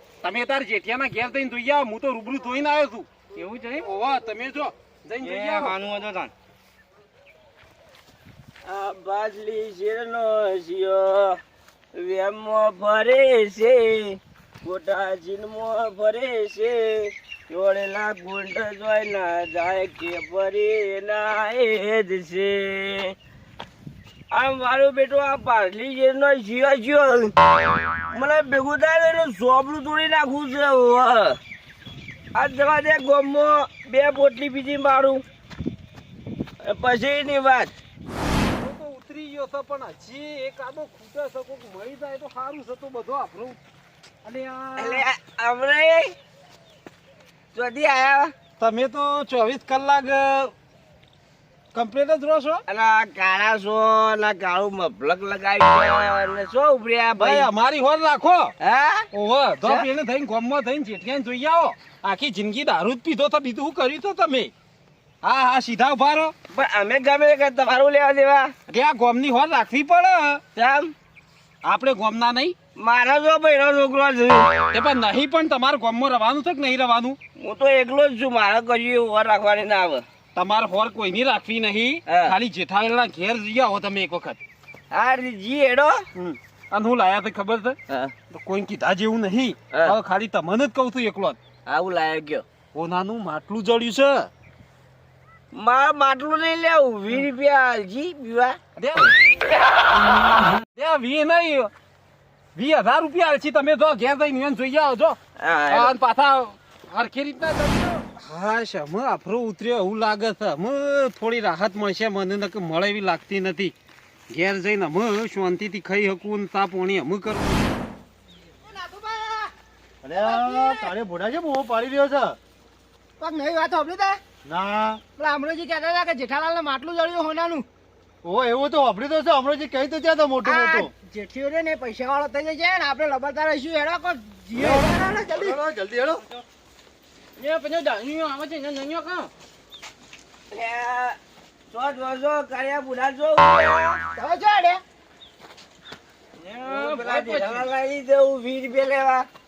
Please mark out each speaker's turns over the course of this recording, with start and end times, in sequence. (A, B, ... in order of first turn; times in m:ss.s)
0:00.2-0:03.1 A
0:03.3-0:03.9 B
0:03.8-0:05.8 A
0:05.2-0:06.3 B
0:08.6-0:11.4 C
0:12.0-0:23.1 C
0:24.3-0:27.3 C
0:28.1-0:31.4 C
0:32.3-0:35.2 C
0:36.6-0:37.7 C
0:38.6-0:43.6 A
0:44.2-0:45.0 A
0:44.8-0:46.1 C
0:47.5-0:48.3 C
0:48.6-0:50.5 A
0:51.7-0:52.6 A
0:52.7-0:57.5 C
0:57.2-0:58.5 A
0:58.6-0:59.0 C
0:59.1-1:04.5 A
1:05.2-1:06.3 A
1:06.5-1:08.5 C
1:08.7-1:10.4 A
1:10.6-1:10.9 C
1:11.6-1:12.5 A
1:12.8-1:14.7 C
1:14.7-1:17.2 A
1:17.4-1:20.0 C
1:20.3-1:24.4 A
1:22.1-1:22.3 C
1:24.9-1:26.0 C
1:26.1-1:27.8 A
1:28.3-1:31.4 A
1:31.7-1:32.4 C
1:32.7-1:34.3 A
1:35.5-1:38.6 C
1:38.8-1:39.1 A
1:40.1-1:41.7 A
1:42.5-1:45.2 A
1:45.4-1:45.9 C
1:45.7-1:53.7 A
1:54.3-1:57.6 A
1:58.6-1:59.5 D
2:00.0-2:02.4 E
2:00.2-2:00.9 D
2:03.2-2:04.2 D
2:04.4-2:05.0 E
2:05.2-2:07.6 D
2:08.2-2:10.9 E
2:10.4-2:15.6 D
2:14.5-2:16.2 E
2:17.4-2:19.3 B
2:20.5-2:21.2 C
2:21.7-2:24.0 C
2:24.2-2:24.8 D
2:26.4-2:27.7 B
2:26.6-2:29.2 C